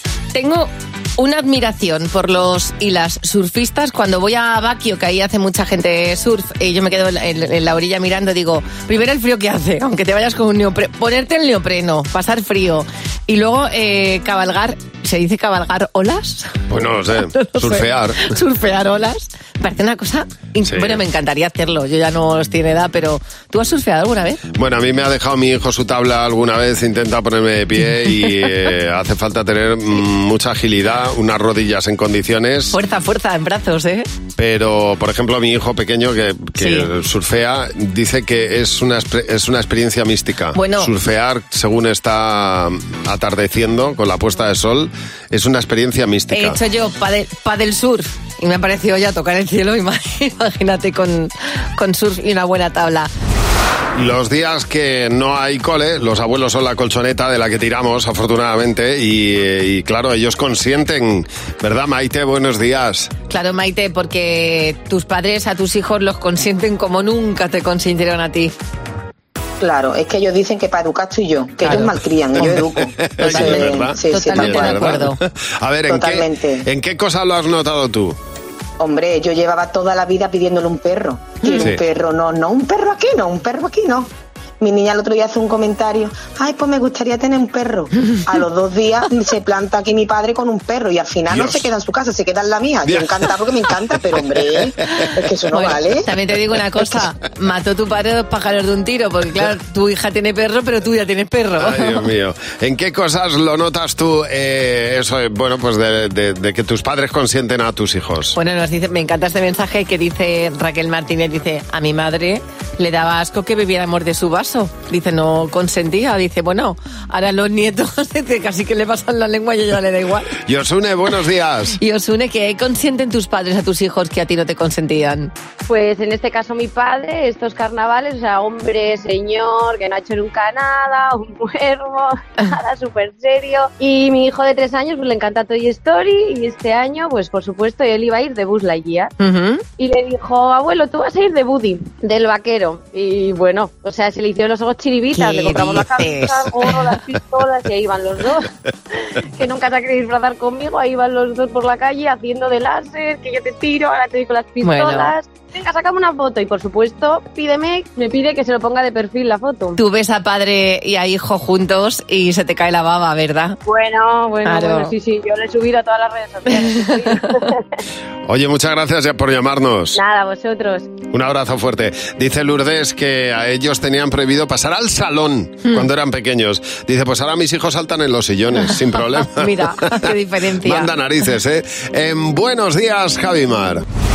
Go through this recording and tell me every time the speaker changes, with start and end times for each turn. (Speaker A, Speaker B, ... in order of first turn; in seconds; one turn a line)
Speaker A: 0.3-16.6
Speaker B: 16.7-18.3
Speaker A: 17.2-24.4
Speaker B: 20.6-21.0
Speaker B: 24.6-32.8
Speaker A: 32.7-34.1
Speaker B: 34.4-46.6
Speaker A: 36.6-36.9
Speaker A: 40.5-40.9
Speaker A: 46.3-53.1
Speaker B: 54.0-63.1
Speaker A: 63.3-68.5
Speaker C: 69.6-72.4
Speaker A: 71.6-71.9
Speaker B: 72.4-78.2
Speaker A: 73.2-75.2
Speaker C: 74.0-74.3
Speaker C: 76.2-76.6
Speaker C: 78.8-84.1
Speaker A: 81.4-81.7
Speaker C: 84.6-96.0
Speaker B: 91.3-91.7
Speaker B: 92.8-93.1
Speaker A: 95.5-102.0
Speaker B: 101.6-108.4
Speaker A: 108.3-120.3
Speaker B: 120.5-121.8
Speaker A: 121.8-125.3
Speaker D: 125.7-139.1
Speaker A: 139.2-139.6
Speaker D: 139.8-148.5
Speaker A: 145.1-146.8
Speaker D: 149.4-159.8
Speaker A: 154.6-155.1
Speaker A: 159.8-163.6
Speaker D: 163.7-167.6
Speaker A: 164.4-164.9
Speaker A: 166.5-167.3
Speaker B: 168.3-170.0
Speaker D: 169.9-171.0
Speaker B: 171.1-179.6
Speaker A: 179.3-180.9
Speaker B: 180.6-183.8